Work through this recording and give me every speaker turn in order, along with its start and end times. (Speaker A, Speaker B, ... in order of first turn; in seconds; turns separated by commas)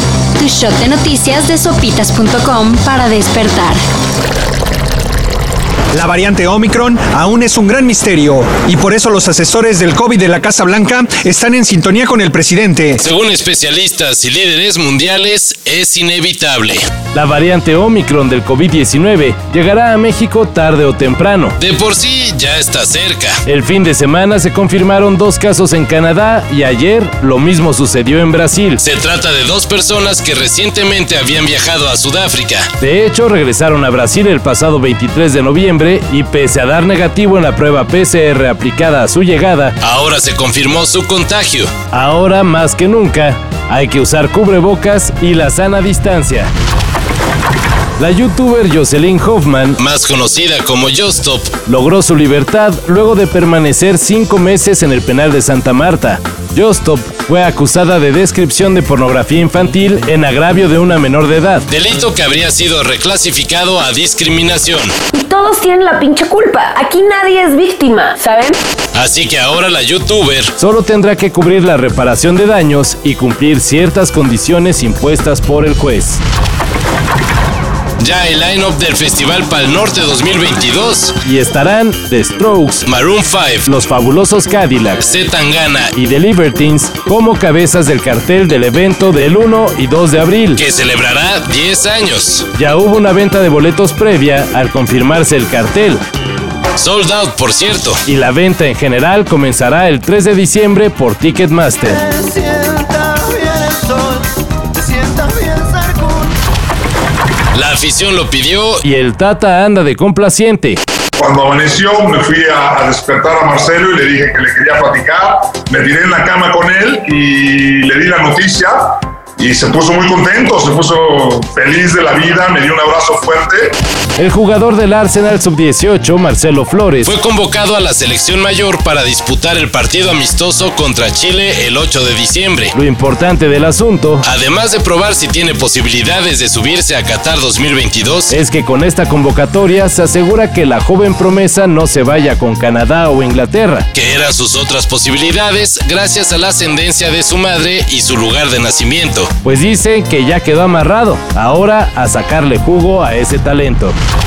Speaker A: 0.4-3.8, Speaker B: 5.9-13.0, Speaker C: 13.0-16.8, Speaker D: 17.1-21.6, Speaker C: 21.6-23.4, Speaker D: 23.4-28.9, Speaker C: 28.9-32.7, Speaker D: 32.7-39.8, Speaker C: 39.8-41.7, Speaker D: 41.8-46.5, Speaker D: 48.0-49.8, Speaker C: 49.8-51.5, Speaker D: 51.5-61.7, Speaker C: 61.7-64.9, Speaker E: 65.1-68.6, Speaker C: 68.9-70.5, Speaker D: 70.5-76.2, Speaker C: 78.0-81.1, Speaker D: 81.2-82.9, Speaker C: 82.9-83.6, Speaker D: 83.6-85.1, Speaker C: 85.1-85.7, Speaker D: 85.8-90.7, Speaker C: 90.6-92.4, Speaker D: 92.5-96.0, Speaker C: 96.8-98.0, Speaker D: 98.0-102.0, Speaker F: 102.0-104.2, Speaker F: 104.8-106.3, Speaker C: 107.5-108.8, Speaker D: 108.8-110.8, Speaker G: 111.2-123.7, Speaker D: 124.2-127.2, Speaker C: 127.1-132.7, Speaker D: 132.7-134.3, Speaker C: 134.3-138.3, Speaker D: 138.3-144.0, Speaker C: 144.0-149.3, Speaker D: 149.2-154.0